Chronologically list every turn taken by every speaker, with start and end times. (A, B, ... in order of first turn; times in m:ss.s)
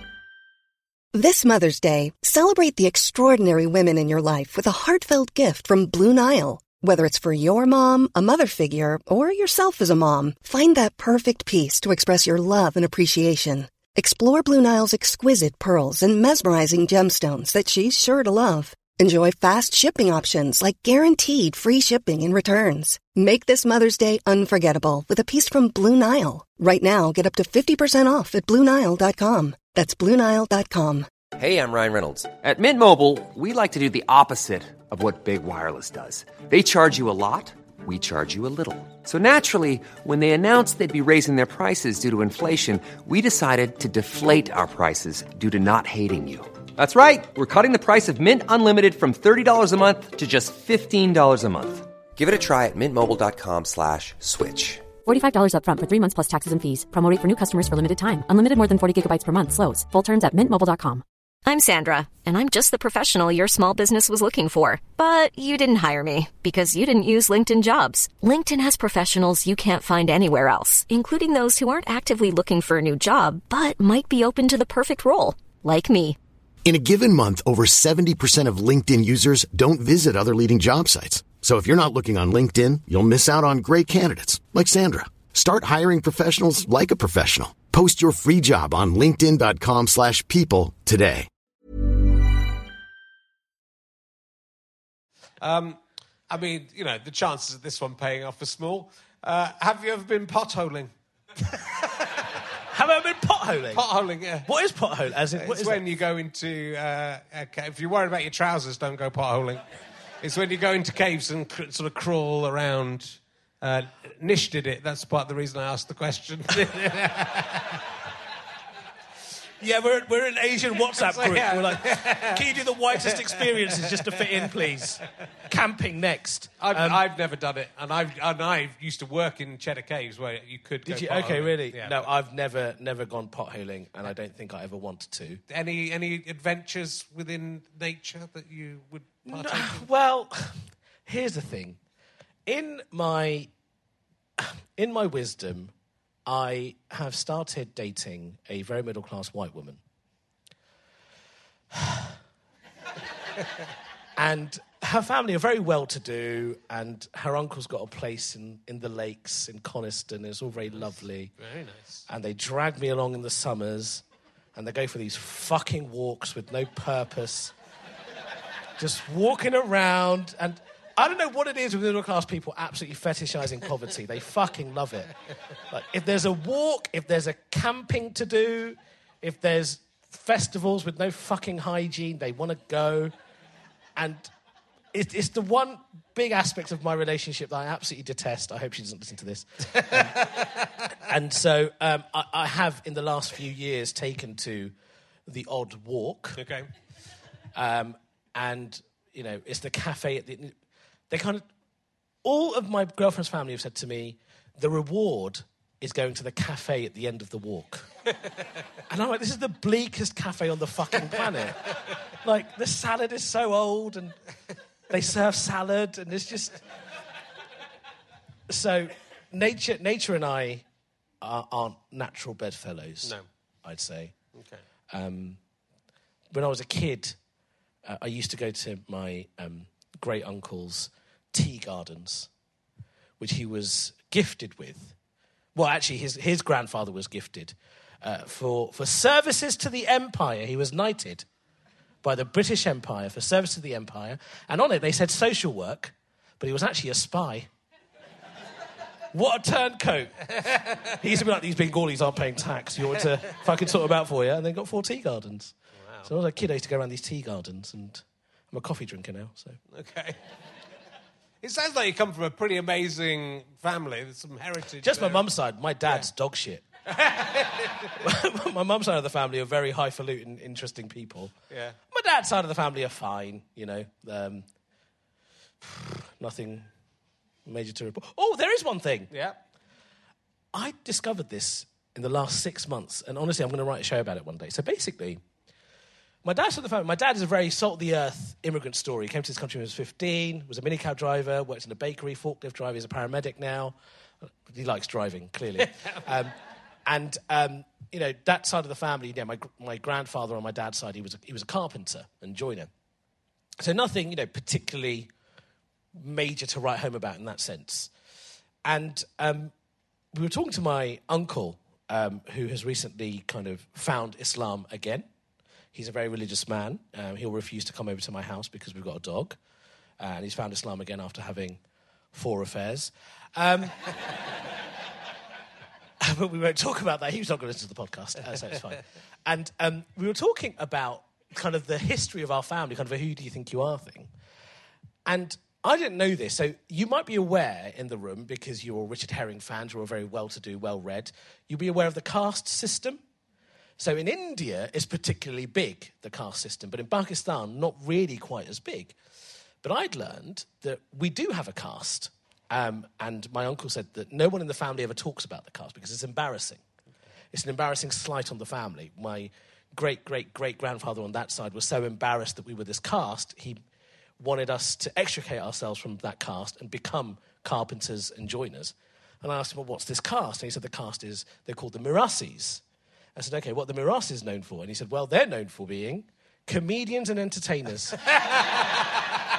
0:01.1-0:31.1 A
0:31.4-0:54.9 B
0:55.0-1:01.0 C
1:01.4-1:16.2 D
1:16.6-1:31.3 E
1:35.4-1:42.3 F
1:42.7-1:43.8 G
1:43.7-1:44.5 F
1:44.4-1:45.8 G
1:45.4-1:49.6 F
1:50.2-1:57.8 F
1:59.6-2:07.0 G
2:01.0-2:02.4 F
2:03.0-2:04.5 F
2:06.6-2:12.0 F
2:10.8-2:15.4 G
2:15.5-2:19.9 F
2:19.3-2:21.8 G
2:22.5-2:23.5 G
2:24.4-2:25.7 G
2:26.3-2:29.8 G
2:31.7-2:32.2 G
2:34.2-2:41.3 G
2:40.7-2:42.0 F
2:42.1-2:44.0 G
2:44.6-2:47.6 G
2:48.8-2:55.1 G
2:55.7-3:03.1 G
3:04.0-3:04.3 G
3:04.9-3:10.2 G
3:09.7-3:10.9 F
3:11.0-3:14.8 G
3:15.3-3:16.4 G
3:16.4-3:16.7 F
3:17.6-3:20.6 G
3:21.1-3:21.5 G
3:22.2-3:27.9 G
3:28.9-3:34.2 G
3:34.9-3:36.6 G
3:38.5-3:40.6 G
3:41.2-3:44.2 G
3:44.3-3:44.6 F
3:44.9-3:45.4 G
3:46.3-3:47.2 G
3:47.8-3:52.3 G
3:53.2-3:55.0 G
3:55.6-4:01.3 G
4:02.0-4:07.5 G
4:09.1-4:10.3 G
4:10.4-4:10.9 F
4:10.8-4:19.6 G
4:15.8-4:16.1 F
4:19.7-4:20.2 F
4:21.4-4:25.3 F
4:24.8-4:26.6 G
4:26.9-4:28.0 F
4:28.0-4:31.3 G
4:31.5-4:31.8 F
4:31.9-4:34.5 G
4:35.6-4:36.7 G
4:37.4-4:39.1 G
4:39.1-4:39.4 F
4:40.5-4:45.2 G
4:46.2-5:02.7 G
5:03.6-5:05.1 G
5:05.9-5:07.9 G
5:08.6-5:09.5 G
5:10.1-5:15.1 G
5:15.7-5:19.4 G
5:20.0-5:21.6 G
5:22.1-5:24.5 G
5:26.0-5:34.1 G
5:35.0-5:43.0 G
5:43.8-5:49.0 G
5:49.6-5:56.6 G
5:57.3-6:03.6 G
6:04.2-6:12.6 G
6:13.2-6:18.6 G